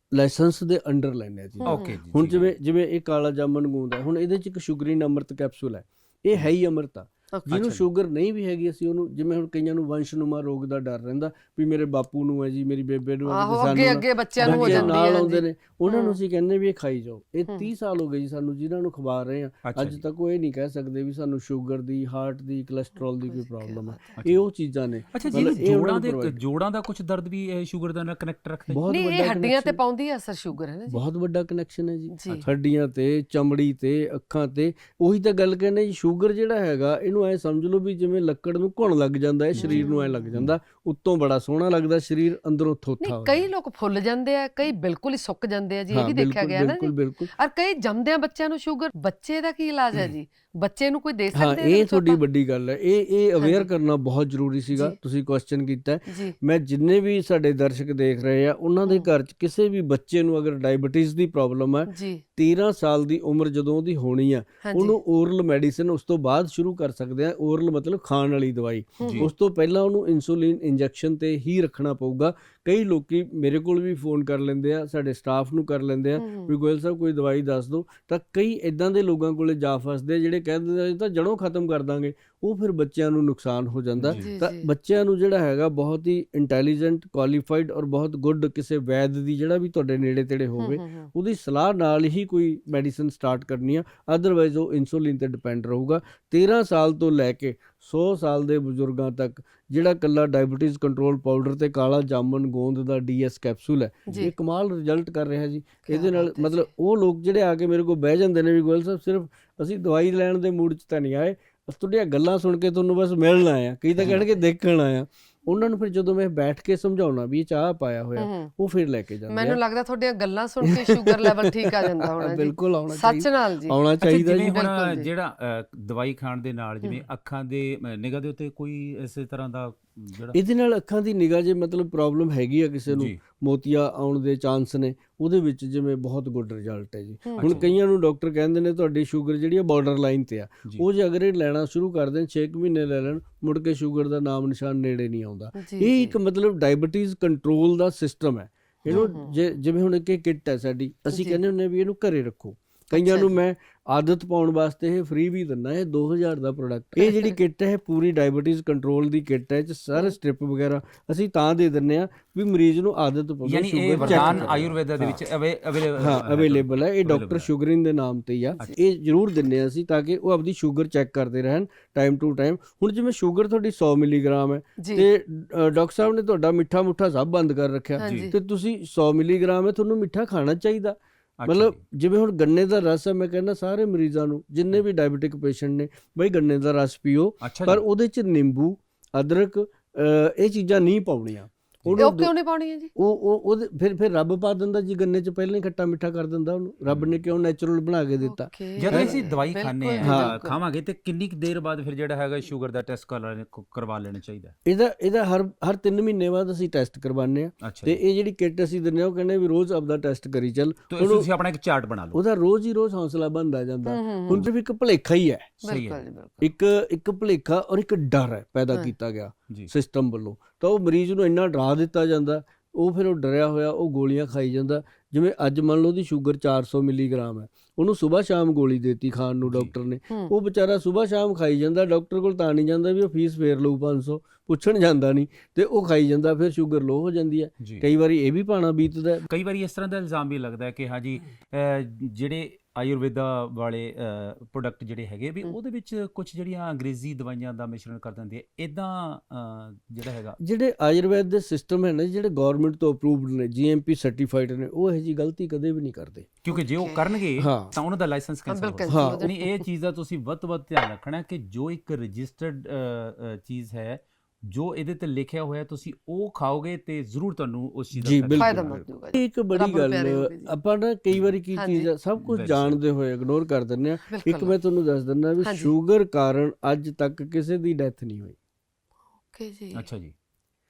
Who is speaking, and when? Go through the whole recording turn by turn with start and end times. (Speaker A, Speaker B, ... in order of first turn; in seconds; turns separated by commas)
Speaker A: 0.1-26.4, Speaker B: 1.6-1.9, Speaker C: 1.6-2.5, Speaker C: 7.5-7.8, Speaker B: 13.3-16.2, Speaker C: 14.4-15.0, Speaker C: 19.6-20.1, Speaker B: 23.2-24.2, Speaker C: 24.2-24.5, Speaker C: 25.1-28.8, Speaker A: 28.7-29.8, Speaker B: 28.9-31.0, Speaker A: 30.9-43.5, Speaker B: 32.1-32.4, Speaker C: 39.5-39.9, Speaker B: 39.6-40.4, Speaker B: 43.0-52.2, Speaker A: 45.9-47.3, Speaker A: 51.3-119.6, Speaker B: 53.4-53.7, Speaker B: 56.1-56.4, Speaker B: 61.9-62.2, Speaker B: 64.6-65.0, Speaker B: 69.0-69.3, Speaker C: 69.0-69.3, Speaker B: 76.2-76.5, Speaker C: 84.0-84.3, Speaker B: 84.1-84.7, Speaker B: 90.6-91.1, Speaker B: 104.1-104.3, Speaker B: 105.9-106.7, Speaker B: 114.0-114.3, Speaker B: 118.2-118.5, Speaker B: 119.3-123.8, Speaker A: 120.7-124.5, Speaker C: 124.0-130.4, Speaker B: 124.4-125.1, Speaker A: 130.3-165.2, Speaker C: 132.9-133.2, Speaker B: 137.3-137.7, Speaker C: 137.4-137.8, Speaker B: 145.6-146.2, Speaker B: 148.9-149.4, Speaker B: 151.1-151.4, Speaker B: 152.9-153.3, Speaker B: 157.0-157.3, Speaker C: 163.4-167.5, Speaker B: 164.0-164.5, Speaker A: 166.0-192.3, Speaker B: 174.8-175.1, Speaker B: 178.0-178.3, Speaker C: 178.0-178.3, Speaker C: 181.4-181.8, Speaker C: 187.4-187.8, Speaker B: 192.0-192.9, Speaker A: 192.9-199.2, Speaker C: 196.9-197.2, Speaker B: 198.2-200.6, Speaker C: 198.8-204.6, Speaker A: 200.0-200.4, Speaker A: 204.7-211.3, Speaker C: 207.6-208.0, Speaker C: 210.9-212.2, Speaker A: 212.1-215.6, Speaker B: 213.9-214.5, Speaker C: 215.6-216.0, Speaker B: 215.6-216.5, Speaker A: 216.4-239.3, Speaker C: 229.5-229.7, Speaker C: 237.6-237.9, Speaker C: 239.3-250.4, Speaker A: 250.4-256.3, Speaker C: 256.4-268.9, Speaker B: 256.5-257.2, Speaker A: 257.4-257.7, Speaker B: 258.5-259.6, Speaker A: 258.9-259.2, Speaker A: 268.0-278.4, Speaker B: 268.4-270.5, Speaker B: 271.6-271.9, Speaker C: 272.2-272.8, Speaker B: 274.1-274.6, Speaker B: 275.4-275.7, Speaker B: 279.3-279.9, Speaker C: 279.7-280.1